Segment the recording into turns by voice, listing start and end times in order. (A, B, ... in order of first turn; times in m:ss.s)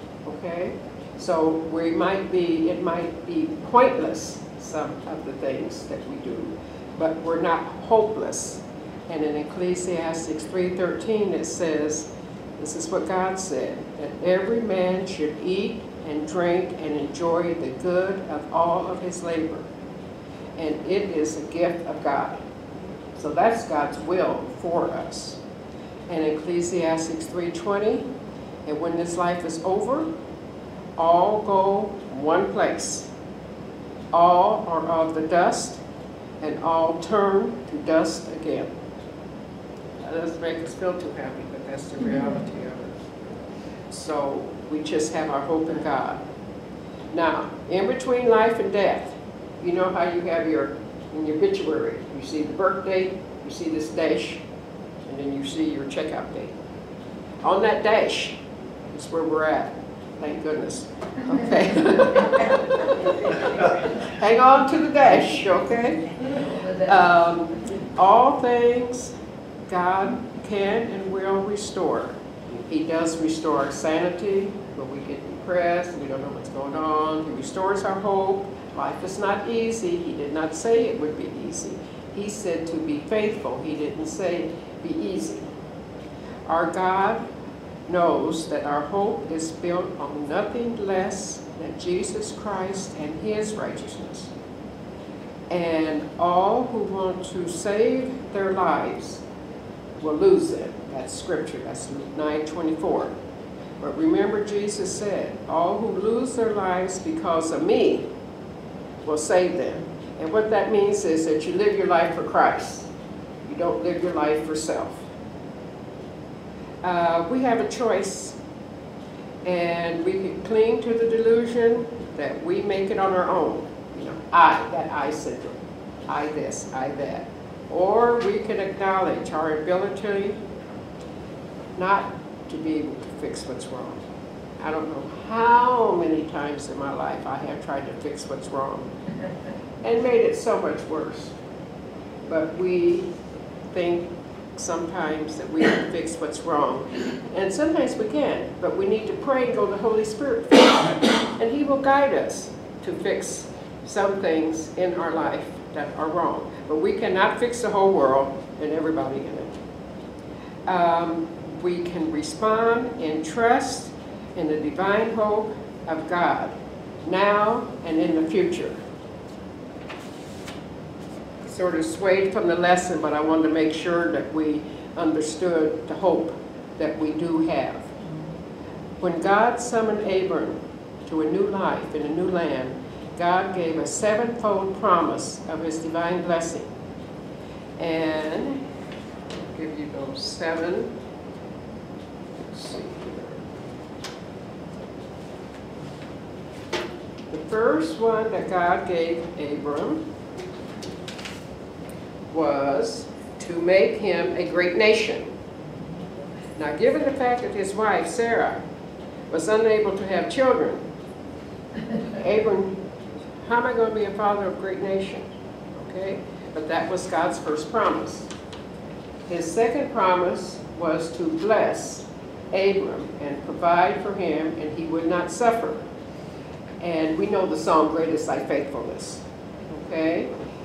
0:00.2-0:19.7 A
0:20.6-0:22.4 A
0:23.2-0:25.4 A
0:26.1-0:28.0 A
0:28.7-0:30.1 A
0:31.0-0:33.1 A
0:34.1-0:35.8 A
0:36.4-0:38.7 A
0:40.0-0:43.4 A
0:43.9-0:46.2 A
0:47.1-0:54.4 A
0:55.1-0:56.5 A
0:57.4-0:58.4 A
0:58.9-1:06.2 A
1:06.8-1:09.1 A
1:09.7-1:12.2 A
1:12.7-1:25.5 A
1:26.5-1:27.2 A
1:27.9-1:34.3 A
1:35.5-1:39.2 A
1:40.0-1:43.1 A
1:43.8-1:48.1 A
1:49.0-1:52.9 A
1:53.5-1:55.0 A
1:56.8-1:58.4 A
1:59.4-2:10.4 A
2:11.8-2:14.0 A
2:14.6-2:18.9 A
2:19.8-2:21.3 A
2:22.3-2:23.1 A
2:23.7-2:39.5 A
2:40.7-2:46.5 A
2:47.0-2:48.8 A
2:51.4-2:57.9 A
2:59.0-3:06.7 A
3:07.8-3:08.6 A
3:09.4-3:10.9 A
3:12.5-3:13.4 A
3:17.3-3:20.0 A
3:22.3-3:25.3 A
3:26.6-3:28.6 A
3:29.3-3:30.8 A
3:32.2-3:32.8 A
3:33.4-3:38.3 A
3:39.3-3:45.8 A
3:46.8-3:50.3 A